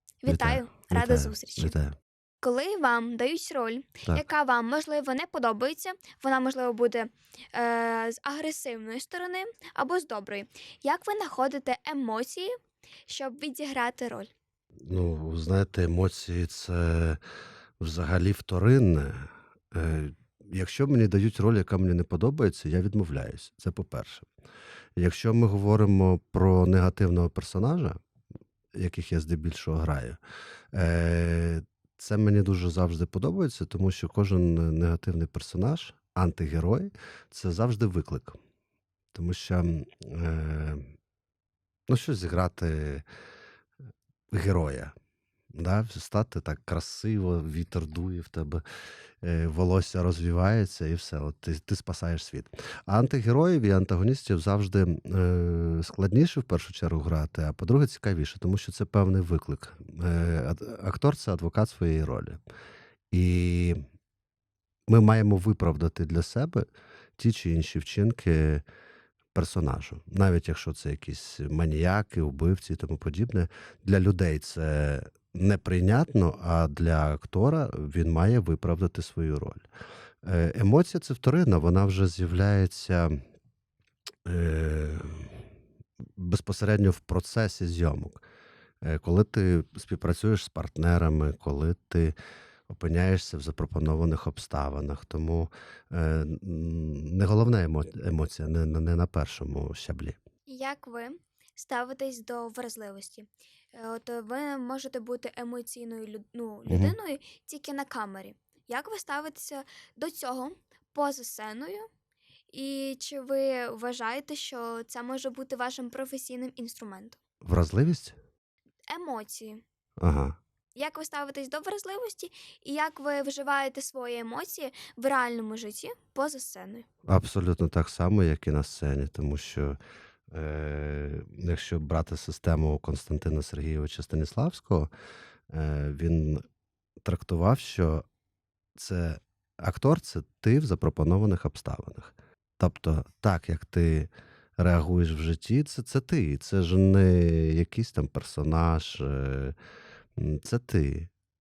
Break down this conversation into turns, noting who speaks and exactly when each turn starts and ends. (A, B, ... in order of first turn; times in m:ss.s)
0:00.2-0:01.7 A
0:00.3-0:02.0 B
0:02.4-0:12.5 A
0:13.1-0:14.3 A
0:14.8-0:17.2 B
0:17.8-0:24.3 B
0:25.0-0:28.0 B
0:28.7-0:30.2 B
0:30.7-0:38.4 B
0:39.1-0:40.9 B
0:41.9-0:43.0 B
0:44.3-0:44.9 B
0:45.5-0:48.6 B
0:49.2-1:02.4 B
1:03.1-1:03.8 B
1:04.9-1:08.6 B
1:09.3-1:19.6 B
1:20.2-1:23.2 B
1:24.2-1:25.4 B
1:26.2-1:28.2 B
1:28.8-1:32.1 B
1:32.7-1:40.2 B
1:40.5-1:51.9 A
1:46.7-1:47.0 B
1:52.5-1:57.2 A
1:57.4-1:58.2 B
1:58.9-1:59.6 A
2:00.0-2:00.4 B
2:00.8-2:06.8 A
2:07.1-2:09.8 B
2:10.3-2:14.9 B
2:15.5-2:16.4 B
2:17.0-2:18.0 B
2:18.8-2:29.5 B
2:30.2-2:31.1 B